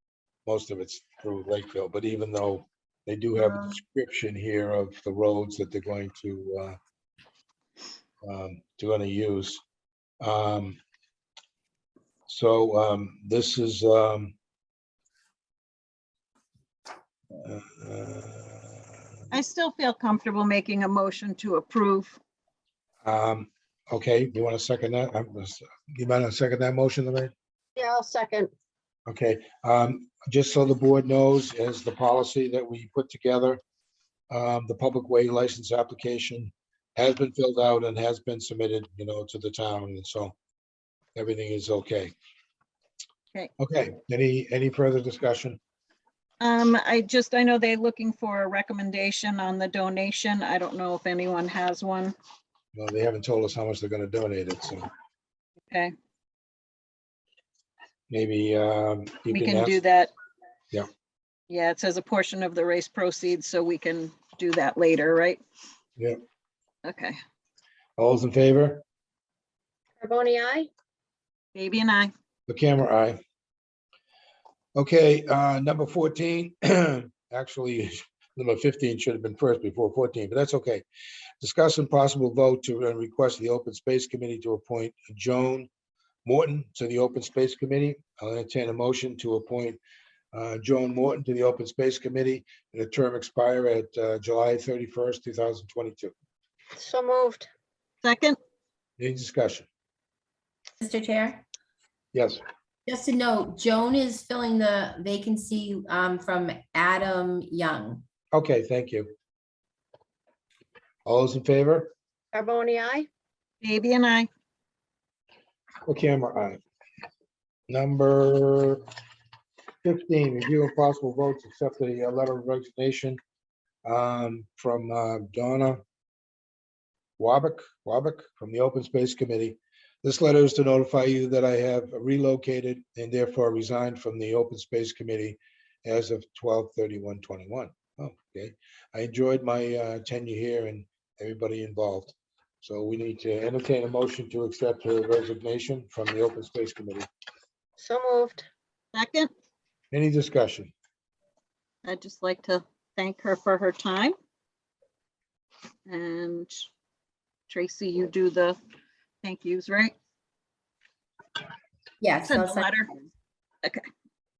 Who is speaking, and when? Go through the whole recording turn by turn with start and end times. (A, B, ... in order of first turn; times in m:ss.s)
0:00.4-0:06.8 A
0:08.2-0:09.6 A
0:10.2-0:10.8 A
0:12.3-0:14.3 A
0:17.4-0:18.8 A
0:19.3-0:22.2 B
0:23.0-0:27.3 A
0:27.8-0:28.5 C
0:29.1-0:33.6 A
0:34.3-0:40.3 A
0:41.2-0:42.1 A
0:43.6-0:45.6 A
0:46.4-0:52.1 B
0:52.7-0:54.9 A
0:58.1-0:59.8 A
0:59.3-1:00.1 B
1:01.5-1:05.4 B
1:06.8-1:07.2 B
1:08.0-1:08.8 A
1:10.0-1:10.7 C
1:11.5-1:12.1 B
1:12.5-1:13.2 A
1:14.7-1:20.8 A
1:21.4-1:25.7 A
1:26.2-1:29.8 A
1:30.3-1:36.1 A
1:36.7-1:37.5 C
1:38.0-1:38.4 B
1:39.0-1:39.7 A
1:40.8-1:41.4 D
1:42.1-1:42.4 A
1:42.9-1:48.0 D
1:48.3-1:49.1 A
1:51.0-1:51.9 A
1:52.3-1:53.1 C
1:53.6-1:54.3 B
1:55.8-1:56.6 A
1:57.7-1:58.8 A
1:59.8-2:03.2 A
2:03.8-2:05.8 A
2:07.2-2:27.1 A
2:27.8-2:28.4 C
2:28.9-2:29.3 B
2:29.9-2:30.7 A
2:31.8-2:34.1 B
2:35.9-2:36.7 B
2:37.5-2:38.6 B
2:39.2-2:39.9 B
2:42.0-2:42.7 D
2:42.3-2:43.1 B